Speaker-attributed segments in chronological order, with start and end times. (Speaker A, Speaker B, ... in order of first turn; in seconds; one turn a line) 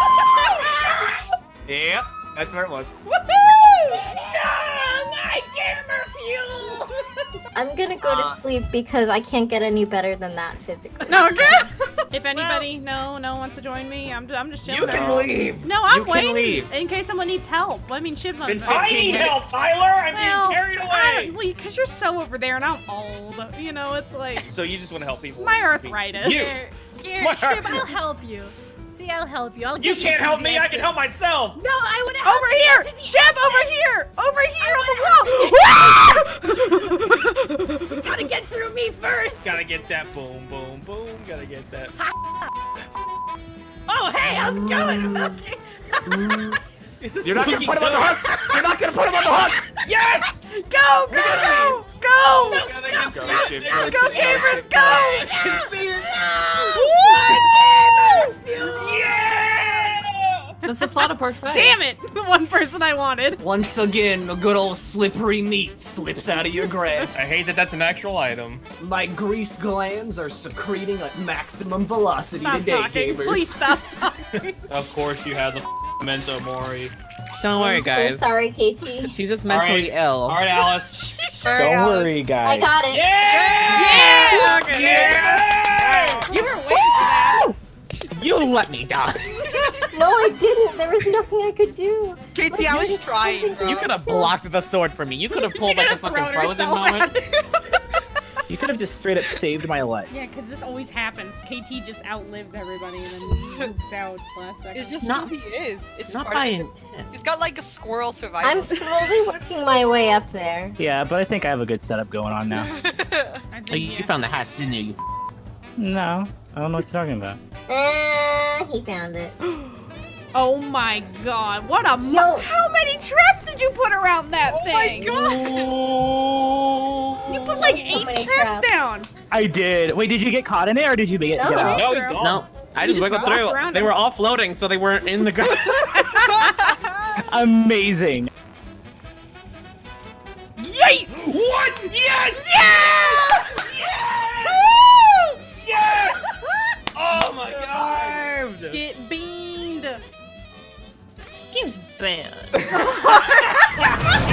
Speaker A: 1.7-2.9
Speaker B: 3.1-7.3
Speaker C: 7.5-11.4
Speaker A: 8.0-8.4
Speaker B: 11.1-12.8
Speaker D: 11.1-19.4
Speaker E: 14.7-15.4
Speaker A: 14.8-16.7
Speaker E: 18.4-21.3
Speaker A: 18.6-19.4
Speaker D: 20.1-24.5
Speaker E: 24.5-26.6
Speaker D: 25.4-26.6
Speaker B: 26.2-30.9
Speaker E: 27.2-27.9
Speaker E: 29.8-31.6
Speaker B: 31.6-33.8
Speaker D: 32.2-38.1
Speaker B: 34.6-37.0
Speaker B: 38.0-39.5
Speaker E: 39.4-41.9
Speaker B: 43.9-46.4
Speaker A: 44.7-45.3
Speaker A: 46.1-46.6
Speaker E: 47.0-48.2
Speaker A: 47.2-49.7
Speaker E: 49.9-50.3
Speaker D: 50.5-53.0
Speaker A: 51.1-51.8
Speaker B: 52.5-58.8
Speaker E: 52.6-55.7
Speaker A: 52.9-54.8
Speaker D: 53.6-55.4
Speaker F: 55.6-56.5
Speaker D: 56.7-57.3
Speaker E: 58.7-60.6
Speaker G: 60.6-61.8
Speaker D: 60.7-63.4
Speaker A: 63.4-67.2
Speaker D: 66.6-67.1
Speaker E: 67.1-68.6
Speaker A: 68.8-73.6
Speaker D: 72.4-74.6
Speaker E: 74.7-76.9
Speaker F: 77.4-78.3
Speaker C: 77.5-79.2
Speaker F: 79.0-80.5
Speaker E: 79.5-81.1
Speaker D: 80.9-81.8
Speaker H: 81.5-82.2
Speaker I: 81.5-82.8
Speaker C: 82.4-83.1
Speaker E: 82.9-86.3
Speaker H: 83.3-83.7
Speaker D: 83.6-87.5
Speaker F: 84.1-85.0
Speaker F: 86.2-87.5
Speaker F: 88.1-89.5
Speaker C: 89.6-94.3
Speaker H: 92.3-94.0
Speaker F: 93.6-97.2
Speaker D: 95.3-97.2
Speaker I: 98.5-100.1
Speaker D: 100.1-105.0
Speaker H: 104.7-109.3
Speaker F: 105.0-105.3
Speaker F: 106.1-107.1
Speaker C: 108.4-110.8
Speaker I: 110.8-112.7
Speaker H: 112.7-113.3
Speaker D: 113.5-114.3
Speaker F: 113.7-115.0
Speaker I: 115.8-117.4
Speaker C: 117.7-119.3
Speaker D: 120.3-125.4
Speaker C: 122.1-122.5
Speaker H: 124.5-125.1
Speaker E: 125.3-127.0
Speaker D: 127.2-129.1
Speaker C: 127.5-128.7
Speaker I: 129.3-131.9
Speaker C: 131.3-132.1
Speaker D: 131.7-132.2
Speaker E: 131.8-132.5
Speaker F: 132.2-136.0
Speaker D: 132.8-134.0
Speaker D: 135.6-136.8
Speaker H: 136.4-136.8
Speaker I: 137.2-138.3
Speaker D: 140.6-141.2
Speaker E: 141.1-148.8
Speaker D: 142.6-143.5
Speaker D: 147.5-148.1
Speaker D: 148.7-150.0
Speaker G: 151.5-153.1